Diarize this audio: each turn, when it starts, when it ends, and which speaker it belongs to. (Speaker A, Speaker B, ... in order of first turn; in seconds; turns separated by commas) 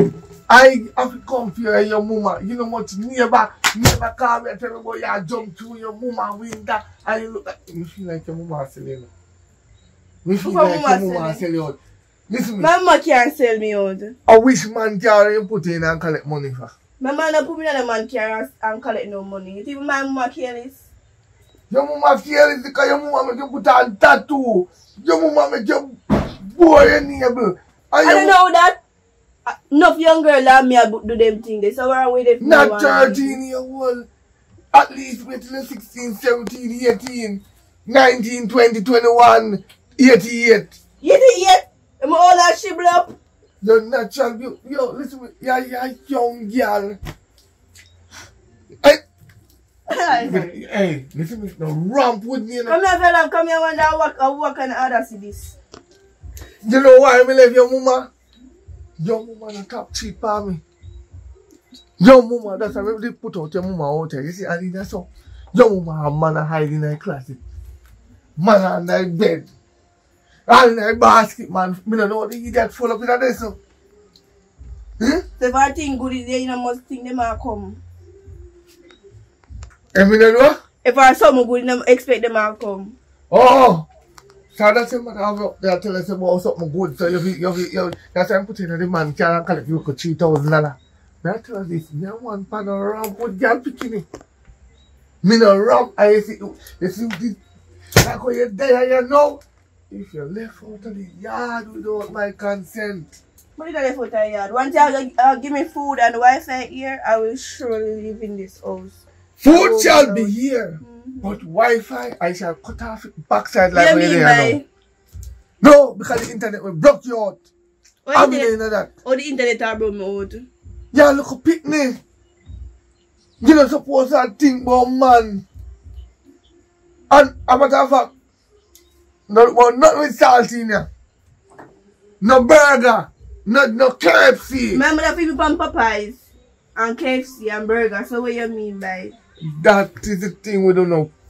Speaker A: 0.5-9.1, Speaker A: 10.2-11.8, Speaker B: 10.4-11.4, Speaker A: 12.3-12.7, Speaker B: 12.6-14.2, Speaker A: 14.3-16.7, Speaker B: 17.0-20.8, Speaker A: 21.7-28.4, Speaker B: 28.0-28.8, Speaker B: 29.4-33.4, Speaker A: 32.4-34.1, Speaker A: 34.7-40.8, Speaker B: 41.0-43.1, Speaker A: 43.6-47.0, Speaker B: 49.9-50.5, Speaker A: 50.1-52.8, Speaker B: 52.6-55.5, Speaker A: 56.6-58.1, Speaker A: 59.0-60.6, Speaker A: 62.0-67.4, Speaker A: 68.4-69.5, Speaker A: 70.5-73.6, Speaker A: 75.0-75.2, Speaker B: 75.4-77.8, Speaker A: 79.9-80.6, Speaker B: 80.8-83.0, Speaker A: 83.3-83.9, Speaker A: 84.5-94.0, Speaker A: 95.2-97.4, Speaker A: 98.0-103.2, Speaker B: 103.6-111.3, Speaker A: 109.4-114.6, Speaker B: 113.7-114.6, Speaker A: 115.6-117.4, Speaker B: 118.0-118.5, Speaker A: 118.1-118.9, Speaker B: 119.0-120.5, Speaker A: 120.9-122.0, Speaker A: 123.4-125.4, Speaker A: 127.1-128.1, Speaker A: 129.3-130.9, Speaker A: 132.2-134.8, Speaker B: 134.7-136.2, Speaker B: 136.8-139.1, Speaker A: 139.4-141.1